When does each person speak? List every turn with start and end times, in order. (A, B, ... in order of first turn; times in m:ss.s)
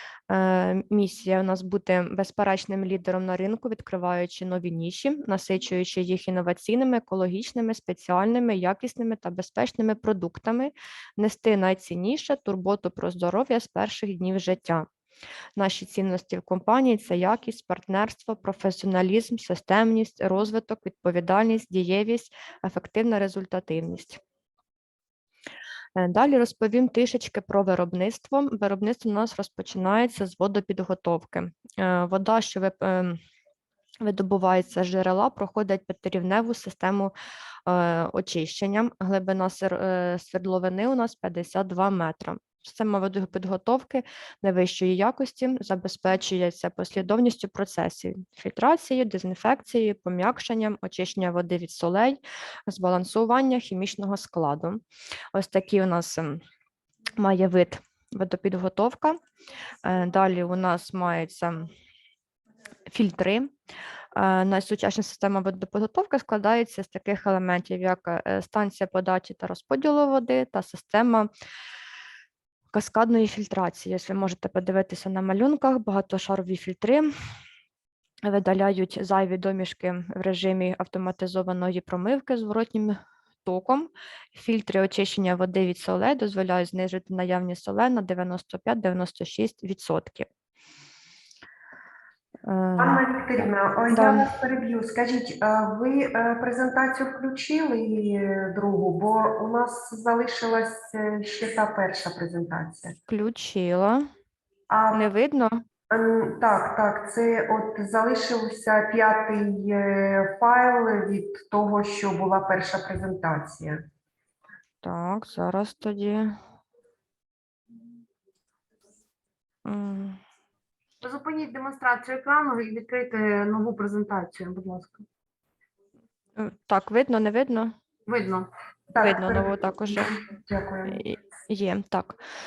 0:00.3-0:14.9 A
0:15.6-0:24.2 A
0:26.0-0:33.2 A
0:34.0-0:37.1 A
0:37.6-0:54.8 A
0:55.3-0:56.4 A
0:57.2-0:59.2 A
0:59.8-1:01.7 A
1:02.9-1:03.5 A
1:04.1-1:11.3 A
1:12.7-1:17.1 A
1:18.2-1:30.3 A
1:32.4-1:34.3 A
1:32.8-1:43.0 B
1:43.1-1:44.1 A
1:44.7-1:45.0 B
1:44.9-1:45.6 A
1:45.9-1:53.8 B
1:54.8-1:56.4 A
1:59.6-2:00.2 A
2:01.0-2:05.1 C
2:06.4-2:07.8 A
2:08.1-2:08.5 C
2:08.9-2:11.0 B
2:09.0-2:10.2 A
2:10.9-2:12.2 A